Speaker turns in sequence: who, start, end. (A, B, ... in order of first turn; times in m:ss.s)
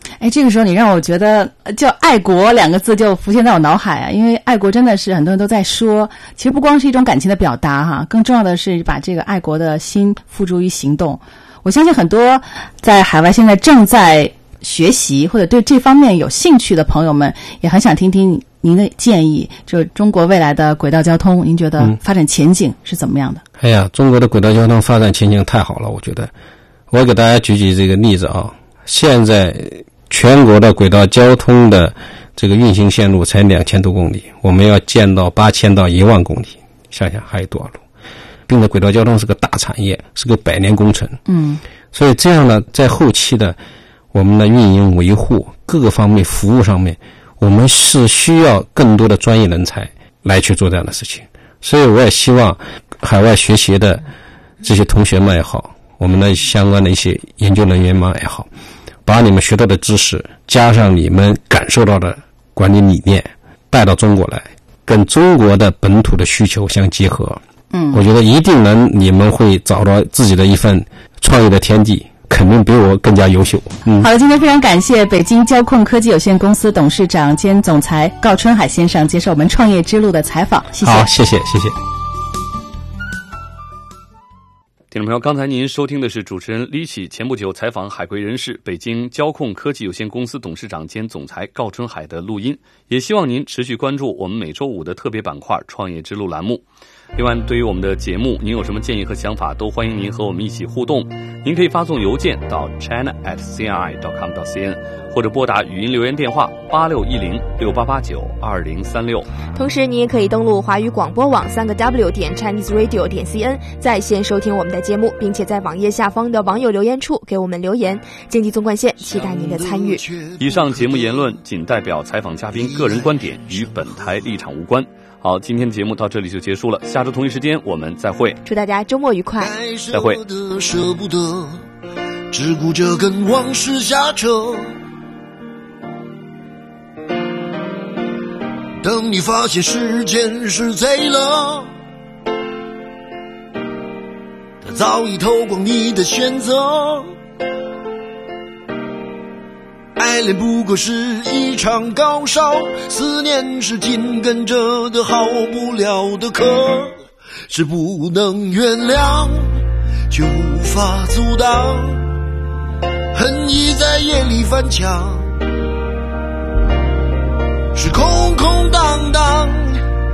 0:00.2-0:23.4 A
0:23.6-0:26.3 B
0:26.9-0:37.8 B
0:38.5-0:41.2 B
0:41.3-0:41.6 A
0:41.9-0:43.6 B
0:44.1-0:54.0 B
0:54.6-0:58.5 B
0:59.1-1:07.4 B
1:07.7-1:08.1 A
1:07.9-1:14.1 B
1:13.9-1:21.1 A
1:20.8-1:21.8 B
1:24.9-1:36.6 C
1:37.2-1:49.3 C
1:49.5-2:00.0 D
1:59.0-2:01.4 E
2:00.4-2:08.4 C
2:02.5-2:04.1 E
2:08.4-2:09.5 D
2:09.4-2:11.6 E
2:09.9-2:10.2 C
2:12.3-2:14.7 E
2:18.8-2:21.7 E
2:24.6-2:27.1 E
2:30.0-2:37.0 E
2:37.5-2:39.5 E
2:40.1-2:42.0 E
2:43.1-2:45.3 E
2:47.8-2:49.8 E